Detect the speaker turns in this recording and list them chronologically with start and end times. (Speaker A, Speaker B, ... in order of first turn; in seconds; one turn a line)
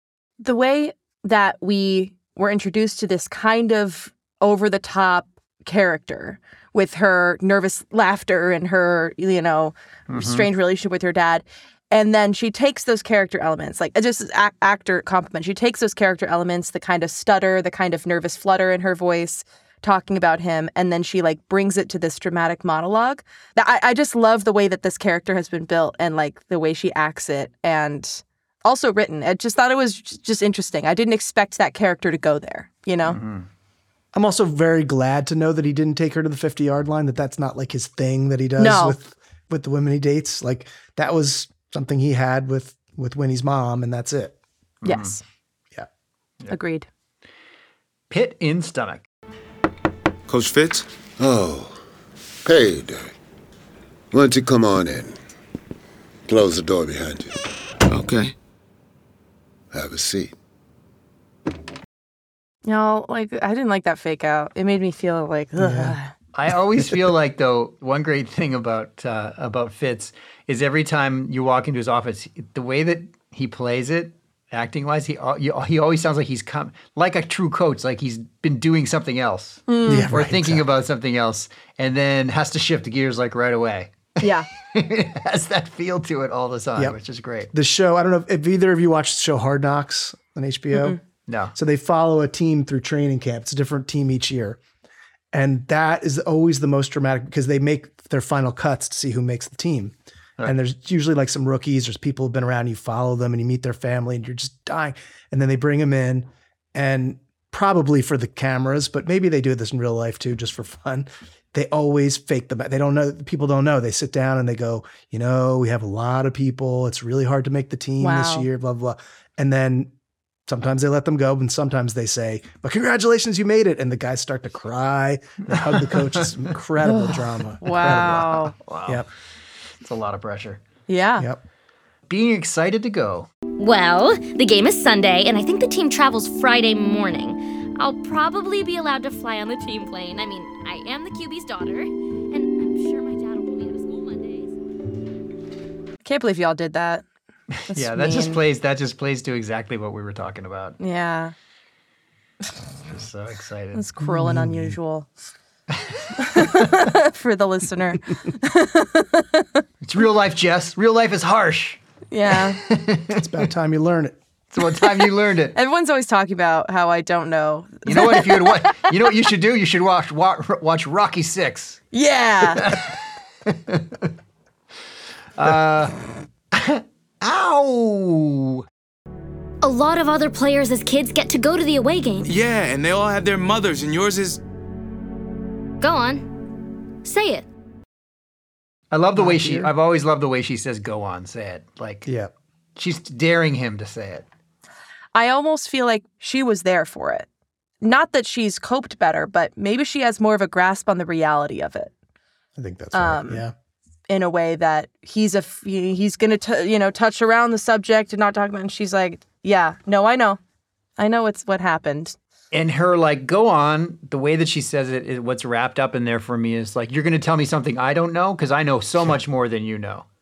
Speaker A: 0.4-33.2
Speaker B: 10.1-10.5
Speaker B: 33.1-33.5
Speaker C: 34.1-44.3
Speaker A: 38.6-39.0
Speaker B: 44.8-45.2
Speaker A: 44.8-45.2
Speaker A: 46.5-46.9
Speaker B: 48.1-49.0
Speaker D: 50.3-50.9
Speaker E: 51.2-51.8
Speaker E: 52.4-53.0
Speaker E: 54.1-55.1
Speaker E: 56.3-57.3
Speaker D: 57.9-58.3
Speaker E: 59.7-60.3
Speaker A: 62.6-66.1
Speaker C: 65.6-66.0
Speaker B: 66.3-87.5
Speaker A: 79.7-80.1
Speaker C: 79.9-80.7
Speaker A: 84.2-84.5
Speaker C: 87.5-91.0
Speaker A: 90.7-91.0
Speaker B: 91.3-91.5
Speaker C: 91.5-94.6
Speaker C: 95.3-119.9
Speaker A: 118.0-118.5
Speaker C: 120.5-129.1
Speaker B: 125.5-126.4
Speaker A: 126.8-128.5
Speaker B: 128.7-129.1
Speaker B: 129.8-130.6
Speaker A: 130.9-131.3
Speaker B: 132.1-133.3
Speaker F: 133.6-144.5
Speaker A: 146.0-147.0
Speaker B: 147.5-150.8
Speaker A: 147.7-148.4
Speaker A: 150.8-151.3
Speaker B: 152.8-153.8
Speaker A: 153.7-155.1
Speaker C: 154.0-154.7
Speaker B: 155.8-156.7
Speaker A: 156.2-159.6
Speaker B: 159.8-161.8
Speaker A: 162.1-162.6
Speaker B: 162.3-163.2
Speaker C: 163.1-164.2
Speaker B: 164.5-165.5
Speaker A: 165.5-168.9
Speaker B: 167.9-171.8
Speaker A: 171.9-172.7
Speaker B: 172.4-174.1
Speaker B: 175.4-176.0
Speaker B: 176.5-178.7
Speaker F: 179.6-182.3
Speaker D: 182.2-184.4
Speaker F: 185.8-186.2
Speaker F: 187.0-187.4
Speaker B: 188.9-192.1
Speaker C: 189.2-189.7
Speaker C: 192.1-192.3
Speaker B: 192.8-194.2
Speaker A: 195.1-197.3
Speaker A: 197.8-201.9
Speaker C: 202.6-203.5
Speaker A: 202.9-203.4
Speaker A: 204.1-210.4
Speaker A: 211.0-212.2
Speaker B: 212.5-220.1